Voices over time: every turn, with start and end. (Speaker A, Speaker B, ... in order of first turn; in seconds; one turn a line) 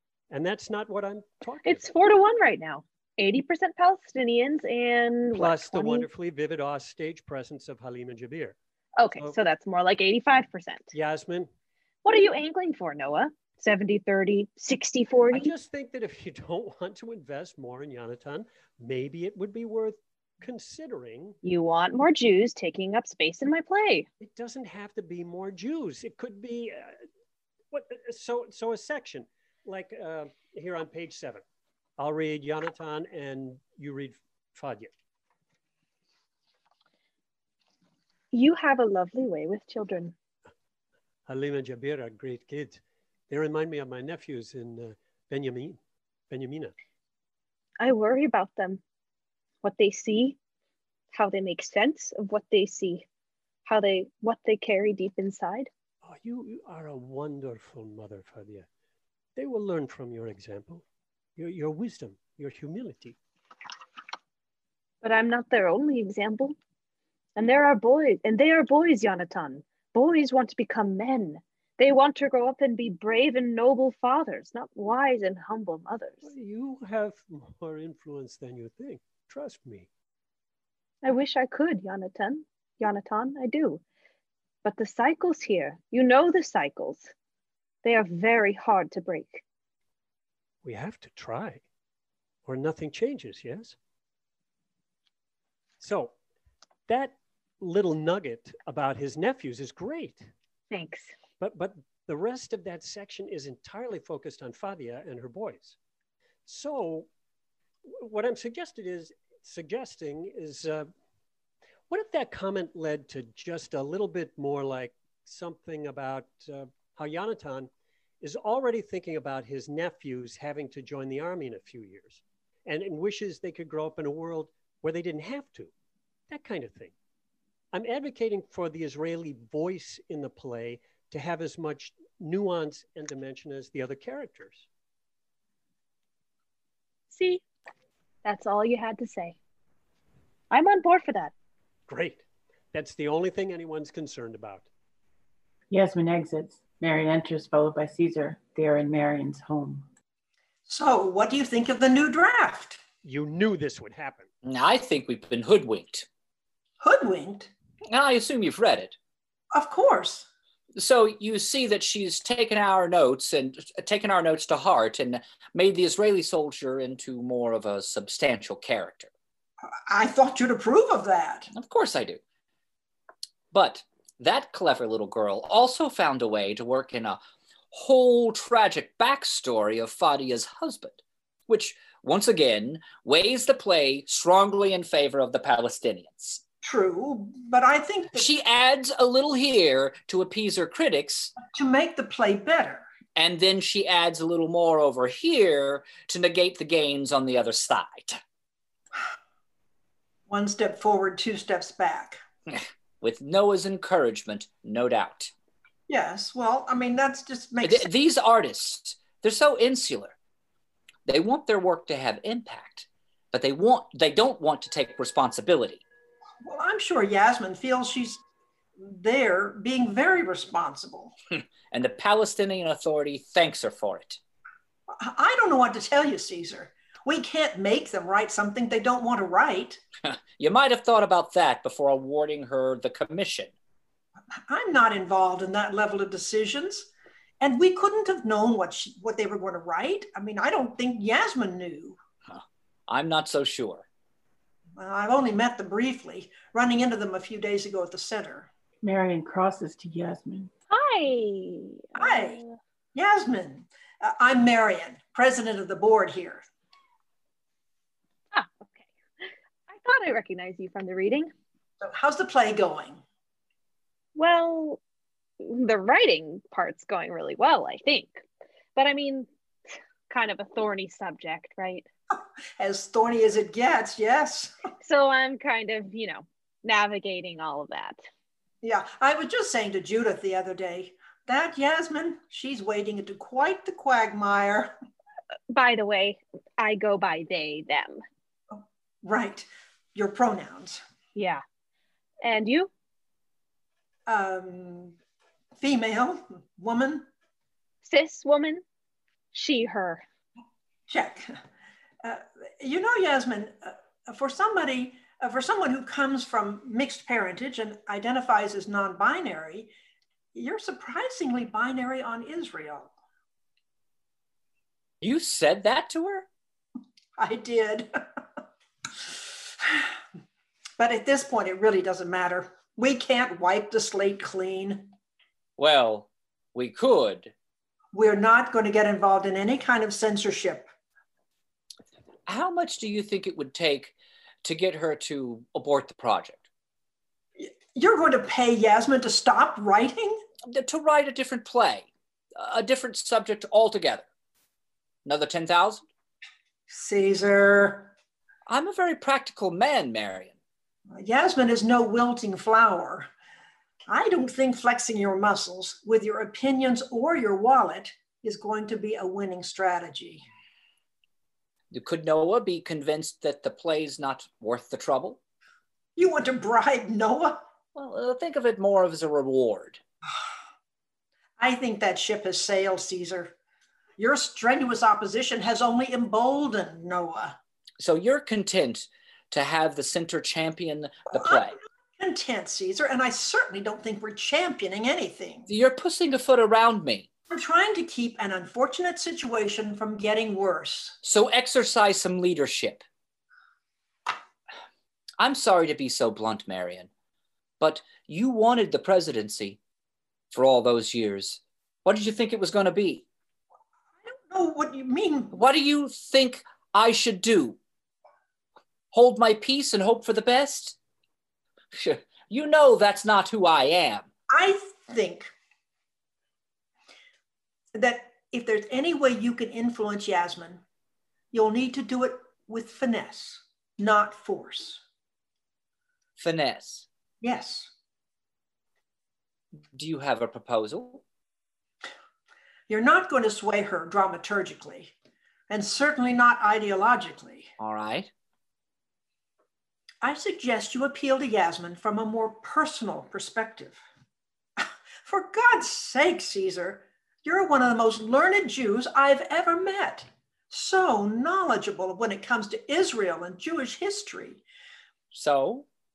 Speaker A: 0.3-1.9
Speaker B: 1.6-6.1
Speaker A: 5.3-8.6
Speaker B: 9.0-10.9
Speaker A: 10.9-11.5
Speaker B: 12.1-15.5
Speaker A: 15.3-21.4
Speaker B: 21.4-24.1
Speaker A: 24.2-27.0
Speaker A: 27.7-31.4
Speaker A: 32.0-34.9
Speaker B: 38.3-40.1
Speaker A: 41.3-45.8
Speaker A: 46.3-46.7
Speaker B: 47.8-48.8
Speaker B: 49.6-50.4
Speaker B: 51.1-53.1
Speaker B: 53.7-55.7
Speaker A: 56.0-58.7
Speaker A: 59.4-60.8
Speaker A: 61.4-63.2
Speaker B: 65.0-66.6
Speaker B: 67.4-76.3
Speaker A: 76.2-79.9
Speaker B: 81.0-83.8
Speaker B: 84.6-87.1
Speaker B: 87.8-89.4
Speaker A: 90.6-91.6
Speaker A: 92.5-93.8
Speaker A: 95.8-96.1
Speaker A: 96.9-100.3
Speaker B: 100.7-101.1
Speaker A: 101.4-105.8
Speaker A: 106.5-107.1
Speaker A: 107.9-110.9
Speaker A: 111.9-117.7
Speaker A: 118.2-125.7
Speaker A: 126.3-126.9
Speaker A: 127.7-134.7
Speaker B: 137.1-137.4
Speaker B: 138.2-139.4
Speaker B: 140.5-141.3
Speaker A: 141.9-144.7
Speaker C: 145.7-149.9
Speaker D: 150.7-152.8
Speaker A: 153.0-154.3
Speaker E: 154.4-156.1
Speaker D: 156.8-157.5
Speaker E: 157.9-159.0
Speaker D: 159.5-160.3
Speaker E: 160.8-169.1
Speaker D: 169.9-171.5
Speaker E: 171.5-172.2
Speaker E: 173.5-177.2
Speaker E: 177.7-186.4
Speaker D: 186.6-188.3
Speaker E: 188.1-191.3
Speaker D: 191.4-192.8
Speaker E: 193.2-198.2
Speaker D: 200.3-202.2
Speaker E: 202.5-205.3
Speaker D: 205.9-207.9
Speaker E: 207.6-210.2
Speaker E: 211.1-215.8
Speaker D: 216.4-218.2
Speaker D: 218.8-221.2
Speaker E: 221.4-224.2
Speaker D: 225.0-229.8
Speaker E: 230.1-233.5
Speaker D: 234.5-236.9
Speaker D: 237.4-242.0
Speaker E: 242.3-243.9
Speaker D: 244.8-248.5
Speaker C: 248.8-250.5
Speaker B: 250.7-252.6
Speaker D: 252.0-252.4
Speaker D: 252.9-256.4
Speaker B: 258.3-261.3
Speaker D: 261.8-263.0
Speaker B: 264.1-264.8
Speaker B: 265.4-268.2
Speaker B: 268.8-269.3
Speaker B: 270.1-271.9
Speaker D: 272.6-274.6
Speaker B: 274.8-278.0
Speaker D: 278.6-284.7
Speaker B: 285.5-288.0
Speaker D: 288.5-290.8
Speaker B: 291.1-291.4
Speaker B: 292.2-292.7
Speaker D: 294.1-295.0
Speaker D: 295.6-297.1
Speaker B: 297.8-298.6
Speaker B: 299.3-300.0
Speaker D: 300.9-301.4
Speaker D: 302.0-309.7
Speaker D: 310.4-312.9
Speaker E: 315.0-316.3
Speaker D: 317.2-317.9
Speaker D: 320.8-324.9
Speaker E: 325.6-327.3
Speaker D: 327.9-330.7
Speaker E: 332.3-336.4
Speaker D: 337.4-340.2
Speaker E: 340.5-344.1
Speaker E: 345.1-345.8
Speaker D: 346.7-347.9
Speaker E: 348.5-350.4
Speaker D: 350.9-353.1
Speaker D: 353.9-360.2
Speaker E: 361.7-365.2
Speaker D: 366.0-367.4
Speaker E: 367.8-369.8
Speaker D: 371.4-373.3
Speaker D: 374.0-377.4
Speaker E: 377.8-381.6
Speaker D: 381.2-385.5
Speaker E: 385.5-387.1
Speaker D: 387.3-391.0
Speaker E: 391.0-392.8
Speaker E: 395.2-396.9
Speaker E: 397.6-399.6
Speaker E: 400.3-403.1
Speaker D: 404.0-405.4
Speaker E: 405.3-407.6
Speaker E: 408.9-410.8
Speaker E: 411.7-414.1
Speaker D: 414.3-415.3
Speaker D: 417.7-420.6
Speaker D: 421.3-424.8
Speaker E: 426.2-426.9
Speaker D: 427.2-427.7
Speaker E: 429.7-431.0
Speaker D: 432.7-434.9
Speaker D: 435.5-437.5
Speaker E: 437.6-438.1
Speaker D: 440.0-443.8
Speaker D: 444.6-454.4
Speaker E: 455.1-455.7